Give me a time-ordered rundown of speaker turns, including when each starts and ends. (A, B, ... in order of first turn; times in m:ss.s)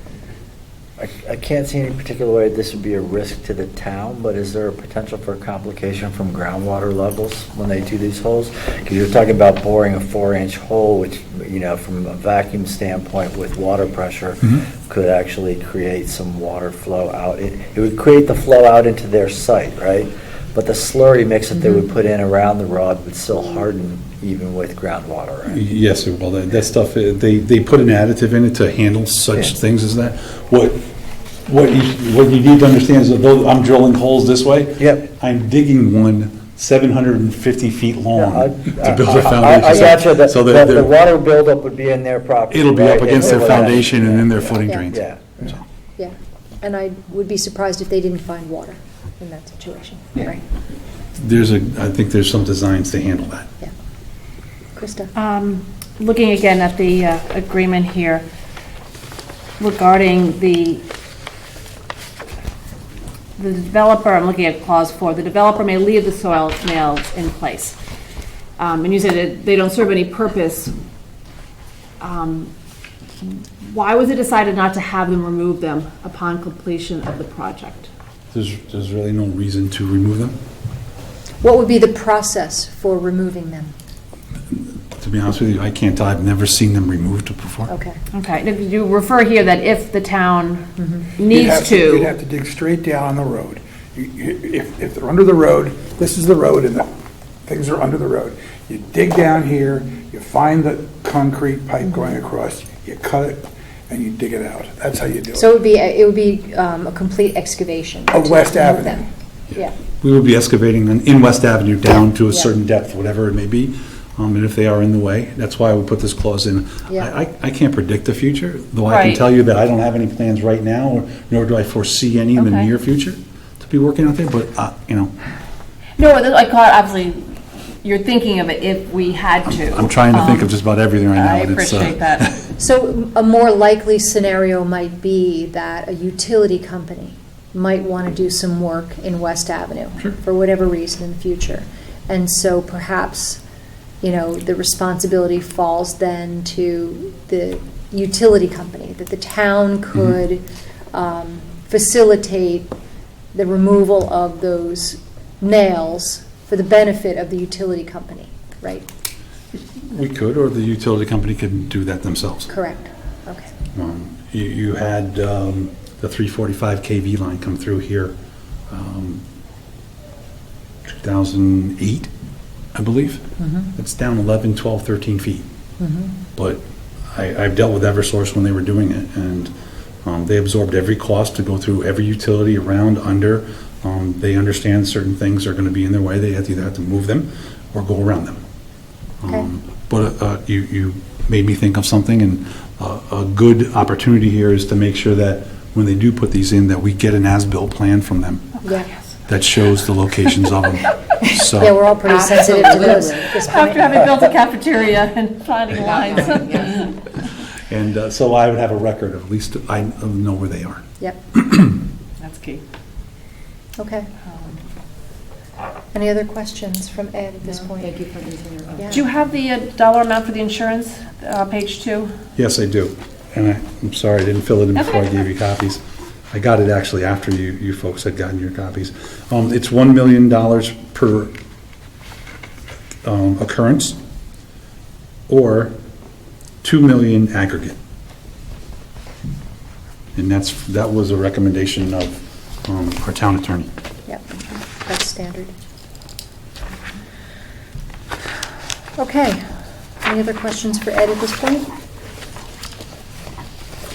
0:01.0-0:25.6 A
0:25.5-0:30.8 B
0:31.5-0:40.9 B
0:34.8-0:35.0 A
0:38.1-0:45.3 A
0:42.5-0:45.6 B
0:46.0-0:50.4 C
0:51.2-0:53.5 B
0:54.8-0:55.1 C
0:55.1-0:58.3 D
0:59.6-1:00.8 D
1:03.4-1:07.8 D
1:08.6-1:10.7 D
1:12.0-1:12.5 D
1:13.2-1:17.9 D
1:18.3-1:20.4 B
1:21.4-1:23.7 C
1:24.5-1:27.7 B
1:27.7-1:28.0 C
1:28.1-1:32.1 D
1:30.8-1:31.1 C
1:31.3-1:36.9 E
1:37.4-1:45.5 E
1:45.4-1:49.8 C
1:48.1-1:49.0 E
1:50.0-2:05.1 B
1:58.8-1:59.2 D
2:02.4-2:02.7 D
2:06.0-2:10.5 D
2:09.5-2:12.2 B
2:11.1-2:12.3 D
2:12.6-2:23.4 C
2:24.0-2:32.7 C
2:33.3-2:38.8 C
2:39.8-2:42.5 B
2:42.5-2:43.5 C
2:43.7-2:48.1 B
2:48.7-2:49.2 B
2:50.9-2:52.1 B
2:52.7-2:53.2 B
2:53.4-2:53.7 C
2:53.7-2:55.4 B
2:55.8-2:56.2 C
2:56.4-2:59.5 B
3:00.0-3:08.4 B
3:09.2-3:18.4 B
3:18.6-3:18.9 C
3:19.3-3:21.8 B
3:21.4-3:24.1 C
3:22.0-3:23.3 F
3:23.4-3:26.9 D
3:25.7-3:26.9 F
3:27.6-3:30.8 B
3:31.4-3:31.6 B
3:32.2-3:32.6 D
3:33.8-3:34.1 C
3:35.9-3:38.0 C
3:37.5-3:39.0 F
3:38.7-3:39.0 C
3:38.9-3:42.1 D
3:42.4-3:51.3 B
3:53.0-3:54.0 B
3:55.3-3:55.7 B
3:56.6-3:57.8 B
4:00.1-4:03.7 B
4:04.1-4:05.5 C
4:09.0-4:09.5 C
4:10.0-4:11.7 C